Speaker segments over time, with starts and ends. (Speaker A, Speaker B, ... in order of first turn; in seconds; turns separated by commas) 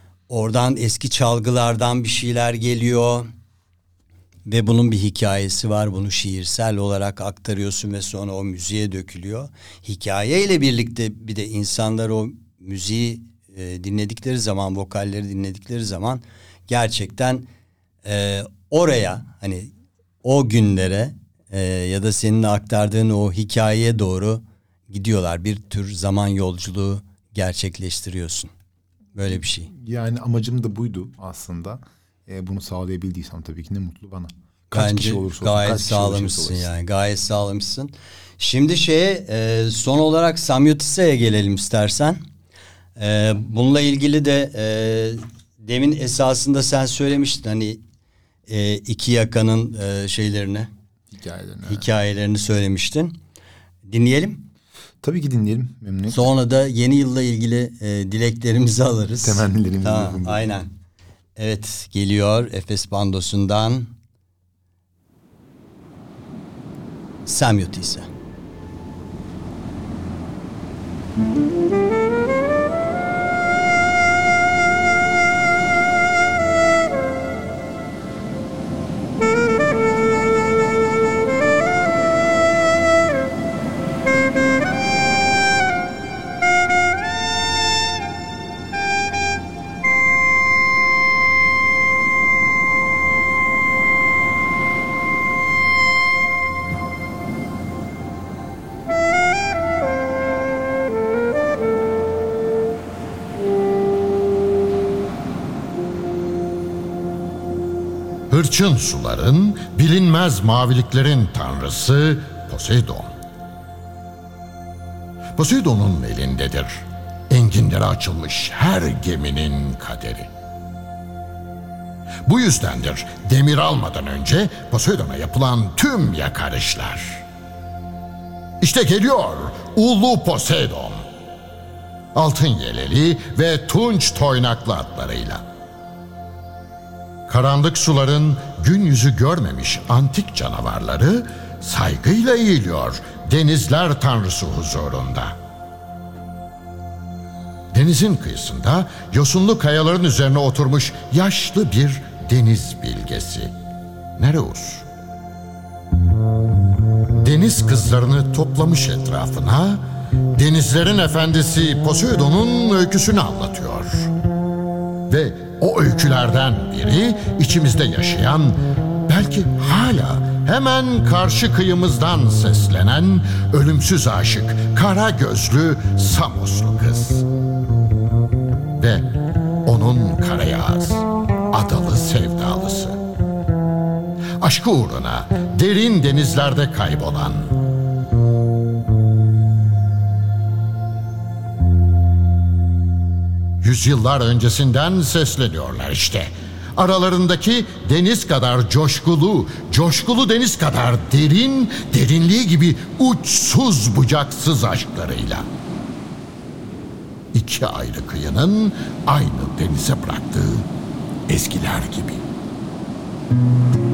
Speaker A: 0.3-3.3, Speaker A: 4.5-17.5, Speaker A: 18.0-19.7, Speaker A: 20.2-28.5, Speaker A: 29.1-29.7, Speaker B: 29.3-36.7, Speaker A: 34.7-42.2, Speaker A: 43.0-47.8, Speaker A: 48.5-50.7, Speaker B: 51.1-51.9, Speaker A: 51.6-53.2, Speaker A: 53.9-54.5, Speaker B: 55.0-56.3, Speaker A: 56.1-60.7, Speaker B: 59.2-60.5, Speaker A: 61.4-63.9, Speaker A: 67.2-68.1, Speaker C: 108.3-113.1, Speaker C: 115.3-120.3, Speaker C: 122.2-127.2, Speaker C: 128.6-131.0, Speaker C: 132.1-135.4, Speaker C: 137.3-145.4, Speaker C: 147.7-153.5, Speaker C: 154.2-154.8, Speaker C: 157.2-159.8, Speaker C: 160.3-164.1, Speaker C: 165.1-177.2, Speaker C: 178.8-179.1, Speaker C: 179.6-183.0, Speaker C: 184.4-187.6, Speaker C: 193.6-205.4, Speaker C: 207.3-210.7, Speaker C: 211.3-212.2